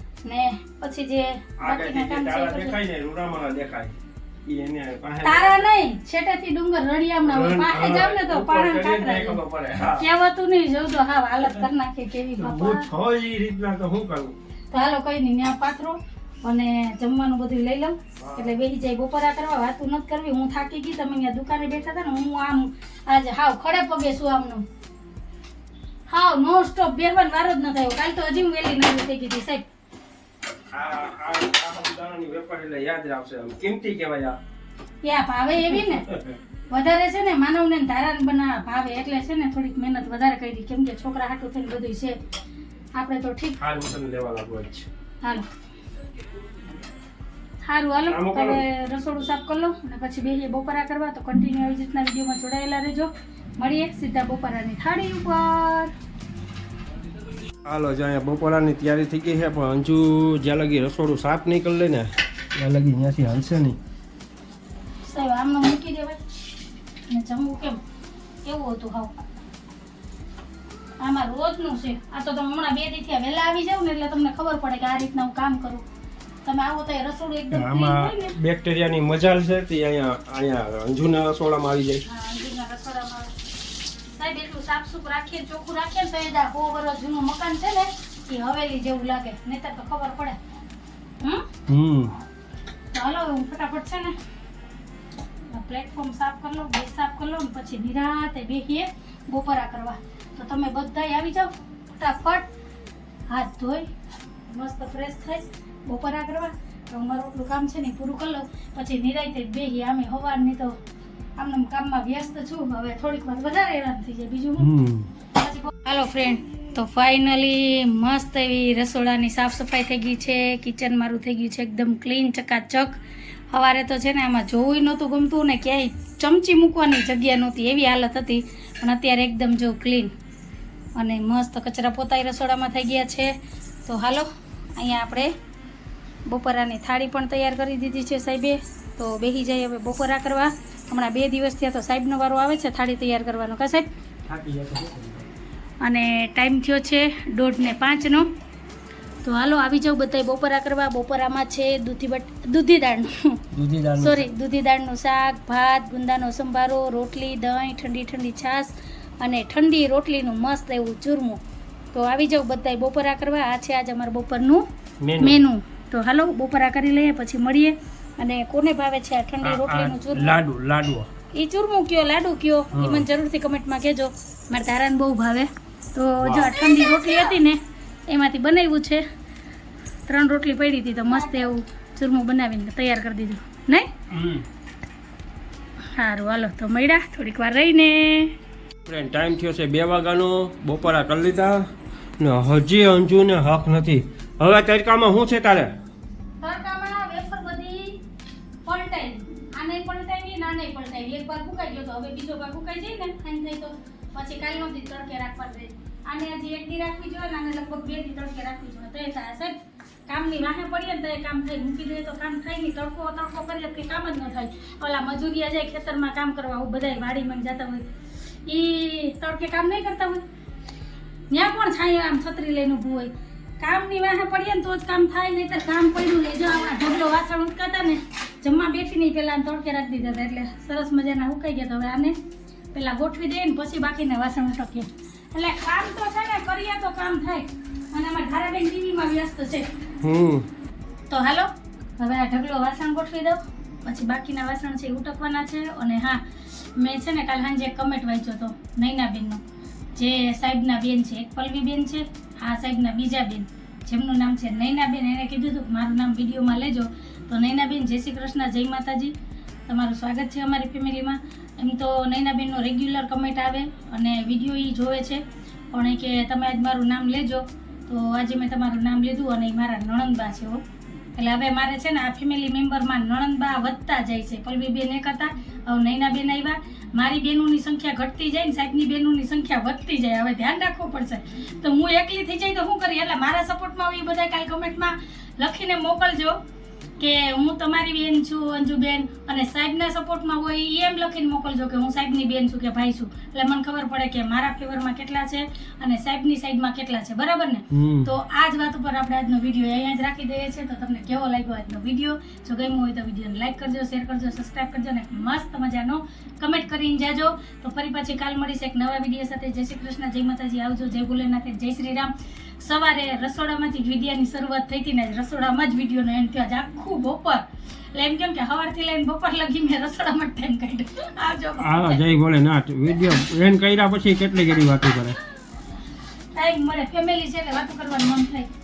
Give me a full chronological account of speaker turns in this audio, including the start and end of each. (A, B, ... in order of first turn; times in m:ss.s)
0:00.2-0:02.8 A
0:01.6-0:05.7 B
0:05.2-0:09.4 A
0:07.2-0:10.0 B
0:10.0-0:12.9 A
0:12.4-0:14.4 B
0:14.7-0:24.6 A
0:18.2-0:18.5 B
0:26.1-0:29.6 A
0:30.7-0:34.4 B
0:35.0-0:36.1 A
0:36.1-0:36.3 B
0:36.7-0:42.2 A
0:43.0-0:43.6 A
0:43.6-0:44.9 B
0:47.6-0:55.9 A
0:48.0-0:48.6 B
0:57.6-1:03.8 B
1:05.0-1:06.2 A
1:07.1-1:07.8 A
1:08.4-1:09.2 A
1:11.0-1:15.8 A
1:16.4-1:18.4 A
1:17.5-1:22.0 B
1:22.0-1:23.3 A
1:23.8-1:30.4 A
1:31.2-1:31.5 A
1:31.7-1:32.1 B
1:32.9-1:34.2 A
1:35.5-1:42.5 A
1:43.3-1:43.9 A
1:44.5-1:50.8 A
1:51.4-1:54.7 A
1:54.6-1:55.1 B
1:55.4-2:03.0 A
2:03.5-2:10.1 A
2:11.0-2:13.3 A
2:13.8-2:15.3 A
2:16.2-2:23.8 A
2:24.3-2:25.3 B
2:25.8-2:28.3 A
2:29.2-2:33.4 A
2:33.5-2:34.3 B
2:34.0-2:41.4 A
2:41.9-2:44.6 A
2:45.0-2:45.5 B
2:45.2-2:50.4 A
2:49.4-2:51.1 B
2:51.3-2:59.0 A
2:52.7-2:53.0 B
2:56.2-2:56.5 B
3:00.1-3:03.9 A
3:04.1-3:04.4 B
3:05.9-3:08.3 A
3:08.8-3:11.6 B
3:12.2-3:15.7 B
3:16.4-3:18.0 A
3:18.6-3:37.8 A
3:38.4-3:40.2 A
3:41.3-3:52.2 A
3:52.7-3:59.7 A
4:00.0-4:00.5 B
4:01.1-4:09.4 A
4:10.0-4:19.1 A
4:19.7-4:25.2 A
4:25.7-4:30.6 A
4:31.1-4:46.4 A
4:47.0-5:22.1 A
4:57.7-4:58.1 B
5:21.6-5:25.2 B
5:26.3-5:28.5 A